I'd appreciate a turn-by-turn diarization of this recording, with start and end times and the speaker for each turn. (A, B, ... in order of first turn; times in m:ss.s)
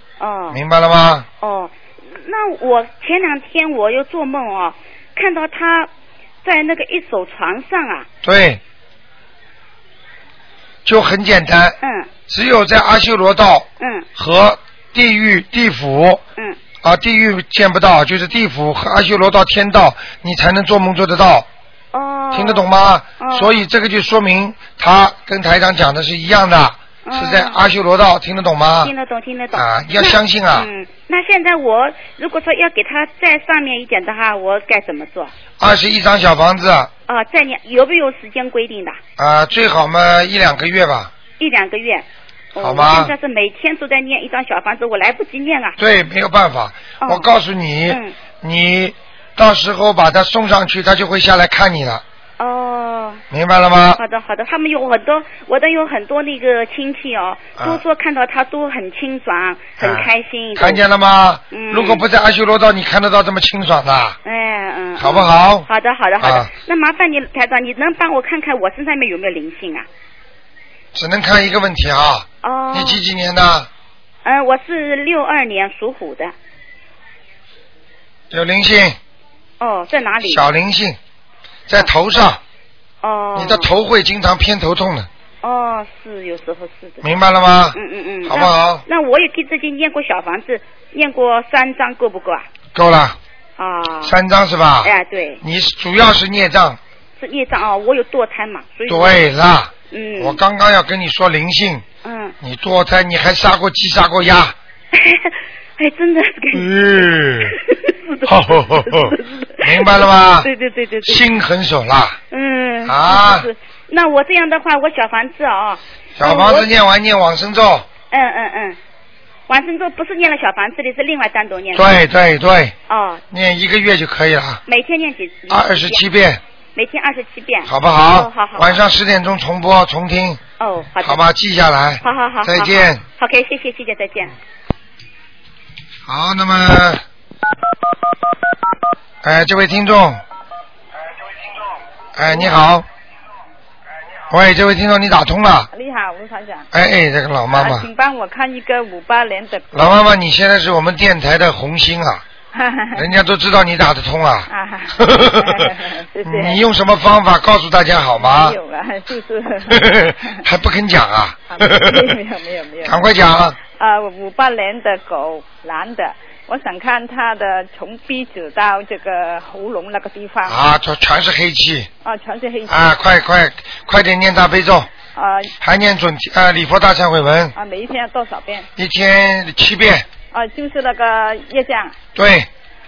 0:00.2-0:00.6 A
0:00.5-0:01.3 B
0:01.4-0:05.9 A
0:06.4-0:08.1 A
0:08.2-0:08.6 B
0:10.8-0:11.8 B
0:11.8-0:12.1 A
0:12.3-0:16.2 B
0:13.8-0:14.1 A
0:16.8-0:21.5 B
0:21.9-0:23.6 A
0:22.3-0:28.9 B
0:27.0-0:27.6 A
0:28.8-0:35.3 A
0:29.5-0:30.7 B
0:35.6-0:36.9 B
0:37.1-0:39.0 A
0:39.2-0:41.1 B
0:41.4-0:45.8 A
0:42.6-0:43.1 B
0:45.8-0:52.0 B
0:47.0-0:47.3 A
0:47.9-0:48.2 A
0:52.4-0:53.2 A
0:53.3-0:54.0 B
0:54.0-1:00.8 A
0:57.6-0:57.8 B
0:59.8-1:04.2 B
1:01.5-1:02.1 A
1:04.2-1:09.9 A
1:05.0-1:05.7 B
1:06.2-1:06.5 B
1:10.9-1:13.7 B
1:12.4-1:13.0 A
1:14.2-1:16.3 A
1:18.3-1:19.0 B
1:19.6-1:20.4 A
1:20.2-1:21.0 B
1:21.7-1:22.4 B
1:23.0-1:23.7 A
1:23.3-1:25.1 B
1:25.4-1:27.0 A
1:27.0-1:28.8 B
1:27.7-1:32.5 A
1:32.7-1:33.2 B
1:33.6-1:34.2 A
1:34.0-1:36.8 B
1:34.8-1:35.4 A
1:37.2-1:39.2 A
1:38.9-1:41.8 B
1:39.9-1:40.4 A
1:42.0-1:42.4 A
1:42.4-1:44.6 B
1:44.9-1:51.2 A
1:46.5-1:47.6 B
1:48.3-1:50.5 B
1:51.0-1:52.2 B
1:52.3-1:56.7 A
1:52.8-1:53.5 B
1:56.2-1:57.9 B
1:58.1-1:58.8 A
1:59.5-2:01.9 A
2:01.7-2:02.7 B
2:02.9-2:03.2 A
2:03.3-2:04.6 B
2:04.6-2:06.0 A
2:05.5-2:06.4 B
2:06.7-2:08.8 A
2:07.7-2:10.4 B
2:10.6-2:11.2 A
2:11.0-2:13.0 B
2:12.0-2:14.4 A
2:16.0-2:17.0 B
2:19.2-2:20.2 B
2:22.1-2:22.9 B
2:24.3-2:25.7 B
2:25.7-2:26.6 C
2:26.7-2:27.9 B
2:27.5-2:30.0 C
2:29.7-2:32.2 B
2:32.5-2:33.0 C
2:32.9-2:35.7 B
2:34.5-2:36.6 C
2:36.2-2:38.6 B
2:38.2-2:39.9 C
2:39.7-2:42.1 B
2:41.5-2:43.0 C
2:42.8-2:43.6 B
2:43.8-2:50.6 C
2:50.4-2:51.9 B
2:52.0-2:52.8 C
2:52.7-2:54.9 B
2:55.1-2:55.5 C
2:55.6-2:57.5 B
2:57.6-2:58.7 C
2:58.8-3:00.0 B
3:00.3-3:02.0 C
3:02.2-3:02.5 B